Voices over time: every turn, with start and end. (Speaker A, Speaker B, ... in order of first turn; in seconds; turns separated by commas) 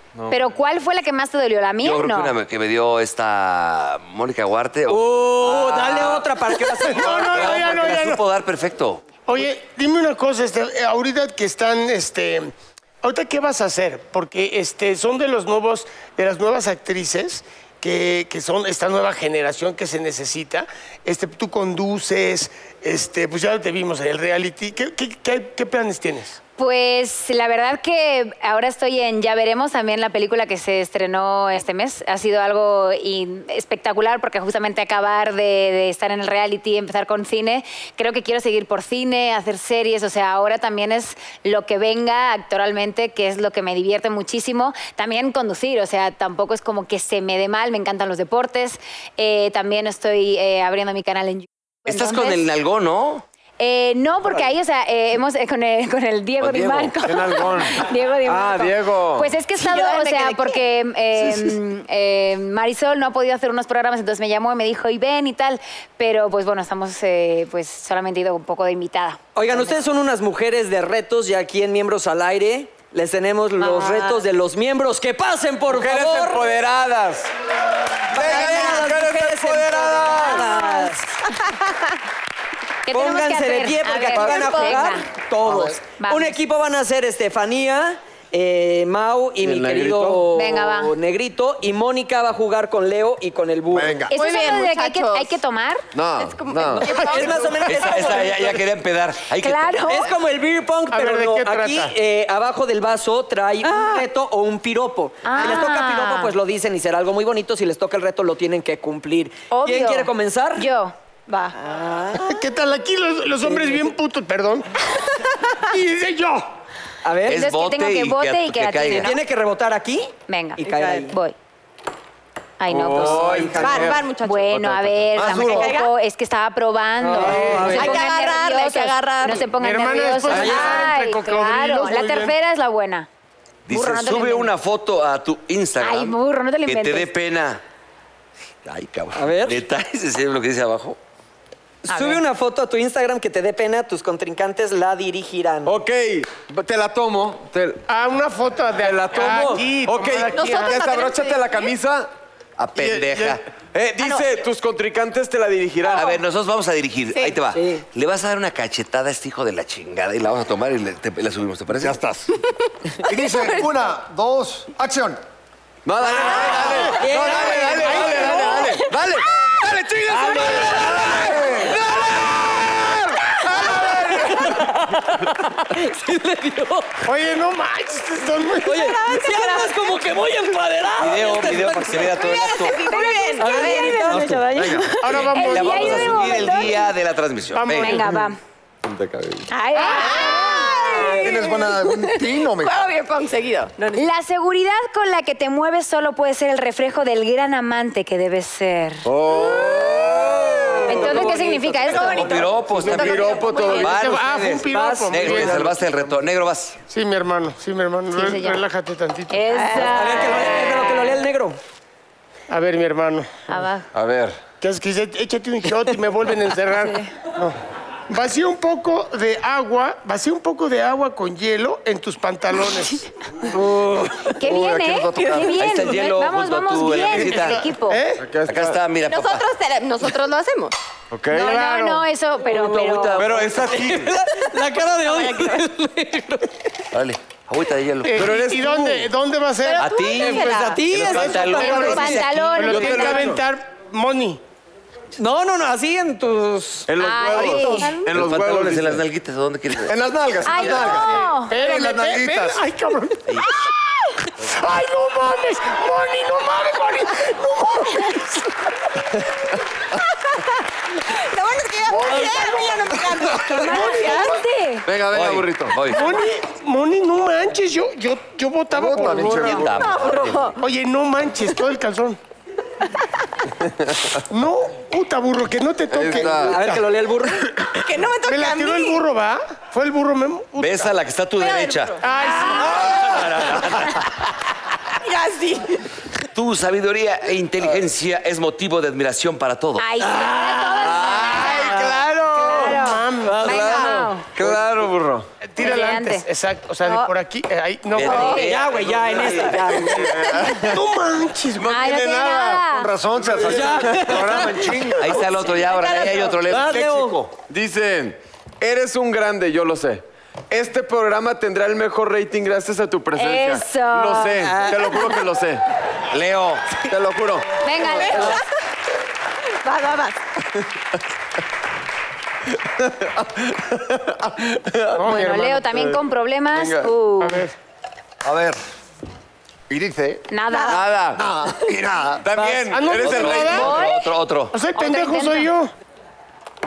Speaker A: 0.1-0.4, Speaker B: 0.3-2.3, Speaker C: 1.8-5.0, Speaker D: 4.9-7.7, Speaker C: 5.6-5.9, Speaker E: 6.8-8.2, Speaker C: 7.0-9.0, Speaker E: 9.3-26.4, Speaker B: 26.6-52.4, Speaker C: 51.8-53.2, Speaker B: 53.6-69.6, Speaker C: 56.4-57.1, Speaker A: 57.0-59.3, Speaker F: 59.6-60.6, Speaker D: 69.3-76.5, Speaker B: 73.6-74.1, Speaker A: 75.7-77.3, Speaker D: 78.1-81.1, Speaker A: 78.1-80.5, Speaker F: 78.2-78.8, Speaker F: 81.4-81.8, Speaker B: 82.8-85.0, Speaker D: 82.9-94.0, Speaker F: 84.2-84.8, Speaker G: 85.4-85.7, Speaker B: 86.0-86.4, Speaker A: 89.4-90.3, Speaker B: 90.3-90.9, Speaker G: 93.7-94.1, Speaker F: 94.1-95.4, Speaker B: 94.1-95.8, Speaker A: 95.9-96.8, Speaker F: 96.1-97.7, Speaker G: 96.2-96.8, Speaker D: 96.8-98.6, Speaker C: 97.7-99.9, Speaker B: 99.4-100.1, Speaker D: 99.9-110.7, Speaker E: 100.9-101.9, Speaker F: 103.6-104.0, Speaker B: 105.2-106.3, Speaker B: 109.5-110.9, Speaker F: 111.3-111.5, Speaker D: 111.5-112.3, Speaker E: 112.2-114.9, Speaker E: 115.6-116.5, Speaker D: 117.0-117.4, Speaker C: 117.3-119.1, Speaker B: 117.3-119.2, Speaker D: 118.9-121.1, Speaker B: 120.3-121.3, Speaker F: 120.7-121.1, Speaker B: 122.6-123.4, Speaker A: 122.7-124.1, Speaker D: 122.9-123.9, Speaker F: 123.5-124.6, Speaker B: 124.2-133.1, Speaker A: 124.7-125.5, Speaker G: 125.2-125.7, Speaker F: 125.4-125.9, Speaker D: 127.0-128.1, Speaker A: 127.2-127.7, Speaker F: 127.7-129.5, Speaker E: 129.6-132.3, Speaker D: 130.3-130.8, Speaker A: 130.3-130.6, Speaker C: 133.7-137.6, Speaker B: 133.7-134.5, Speaker B: 135.8-137.1, Speaker C: 138.6-141.0, Speaker D: 139.1-139.6, Speaker D: 141.8-145.8, Speaker B: 141.9-142.2, Speaker A: 145.7-147.8, Speaker E: 147.9-150.9, Speaker A: 148.8-152.1, Speaker D: 149.2-149.5, Speaker F: 150.2-151.7, Speaker C: 152.6-153.4, Speaker A: 152.7-156.1, Speaker F: 154.0-154.4, Speaker C: 155.8-162.0, Speaker F: 157.1-157.4, Speaker D: 157.5-157.8, Speaker G: 161.8-162.3, Speaker G: 163.0-165.2, Speaker F: 163.0-163.7, Speaker A: 165.8-174.5, Speaker C: 166.2-166.9, Speaker G: 166.3-168.9, Speaker D: 167.0-168.7, Speaker E: 167.9-168.6, Speaker D: 170.1-171.3, Speaker G: 170.7-171.8, Speaker D: 173.7-177.0, Speaker E: 177.0-178.9, Speaker D: 178.6-182.1, Speaker F: 178.8-180.0, Speaker C: 181.0-182.8, Speaker F: 182.1-184.3, Speaker B: 182.9-186.8, Speaker D: 183.4-184.8, Speaker G: 184.5-184.8, Speaker E: 185.0-186.7, Speaker C: 185.2-188.0, Speaker E: 187.5-188.0, Speaker B: 187.7-188.4, Speaker A: 188.8-189.5, Speaker B: 189.5-191.3, Speaker F: 189.7-194.1, Speaker G: 191.2-192.8, Speaker B: 194.0-199.1, Speaker A: 199.0-201.3, Speaker F: 199.3-204.0, Speaker D: 200.9-202.0, Speaker B: 200.9-202.3, Speaker C: 201.8-206.8, Speaker A: 202.8-203.9, Speaker E: 203.8-205.7, Speaker D: 204.7-205.1, Speaker A: 205.2-206.1, Speaker E: 206.9-209.4, Speaker B: 208.1-208.6, Speaker B: 209.3-211.2, Speaker D: 209.6-211.6, Speaker E: 212.5-213.3, Speaker B: 213.5-213.9, Speaker A: 213.9-214.4, Speaker E: 214.6-217.5, Speaker E: 218.1-223.1, Speaker A: 223.8-224.2, Speaker G: 224.3-225.6, Speaker B: 224.3-228.0, Speaker F: 225.2-225.5, Speaker C: 225.6-227.6, Speaker E: 226.9-228.2, Speaker A: 228.2-228.8, Speaker C: 228.4-229.4, Speaker F: 229.1-230.7, Speaker A: 231.1-232.0, Speaker B: 231.3-233.4, Speaker E: 231.4-231.7, Speaker C: 232.5-233.6, Speaker A: 233.1-234.2, Speaker D: 233.6-236.5, Speaker F: 235.0-235.6, Speaker C: 236.9-238.3, Speaker E: 238.0-239.8, Speaker A: 238.1-239.1, Speaker F: 239.6-242.1, Speaker C: 239.8-242.7, Speaker D: 240.2-242.2, Speaker E: 241.1-244.4, Speaker B: 241.6-243.4, Speaker A: 242.6-243.4, Speaker D: 245.2-247.9, Speaker A: 246.9-249.0, Speaker B: 247.0-248.1, Speaker C: 248.1-249.9, Speaker G: 249.9-252.6, Speaker C: 250.4-251.0, Speaker B: 250.4-251.5, Speaker E: 251.5-253.5, Speaker C: 253.3-253.5, Speaker E: 254.4-258.6, Speaker F: 260.1-264.4, Speaker E: 261.9-264.4, Speaker B: 263.6-264.9, Speaker A: 264.9-265.8, Speaker C: 265.1-266.1, Speaker E: 265.9-269.6, Speaker G: 268.7-269.8, Speaker C: 269.4-270.5, Speaker F: 269.7-270.6, Speaker E: 270.6-272.2, Speaker E: 274.2-276.7, Speaker A: 275.9-276.6, Speaker D: 276.4-277.4, Speaker F: 277.8-279.0, Speaker E: 278.2-280.9, Speaker C: 280.6-282.0, Speaker F: 281.4-282.9, Speaker E: 282.0-283.2, Speaker C: 282.8-284.2, Speaker F: 285.0-285.8, Speaker C: 286.3-289.9, Speaker B: 289.8-294.4, Speaker D: 290.1-291.9, Speaker A: 290.8-292.8, Speaker E: 292.5-293.9, Speaker D: 293.2-294.1, Speaker A: 293.4-295.3, Speaker E: 295.4-298.5, Speaker B: 295.6-296.2, Speaker C: 297.9-299.8, Speaker B: 298.0-298.5, Speaker D: 298.1-300.3, Speaker A: 299.8-300.8, Speaker E: 300.5-301.9, Speaker A: 301.6-302.6, Speaker B: 301.7-302.9, Speaker G: 302.7-305.0, Speaker A: 303.2-305.0, Speaker D: 303.5-304.7, Speaker C: 305.0-306.9, Speaker F: 305.3-306.4, Speaker D: 306.5-307.2, Speaker A: 306.8-315.6, Speaker B: 313.1-315.2, Speaker D: 314.4-314.7, Speaker C: 316.1-316.8, Speaker A: 316.9-318.2, Speaker B: 317.6-318.4, Speaker F: 317.8-318.5, Speaker F: 319.6-320.2, Speaker A: 322.8-325.0, Speaker E: 324.9-325.6, Speaker B: 325.0-327.4, Speaker A: 325.6-326.9, Speaker E: 327.2-327.5, Speaker G: 328.2-328.6, Speaker G: 329.7-330.2, Speaker B: 330.3-330.9, Speaker A: 330.8-331.2, Speaker G: 331.1-332.2, Speaker A: 332.2-333.7, Speaker D: 332.4-332.6, Speaker E: 332.7-333.9, Speaker C: 333.0-334.6, Speaker B: 333.5-334.1, Speaker E: 334.5-335.7, Speaker B: 334.7-335.5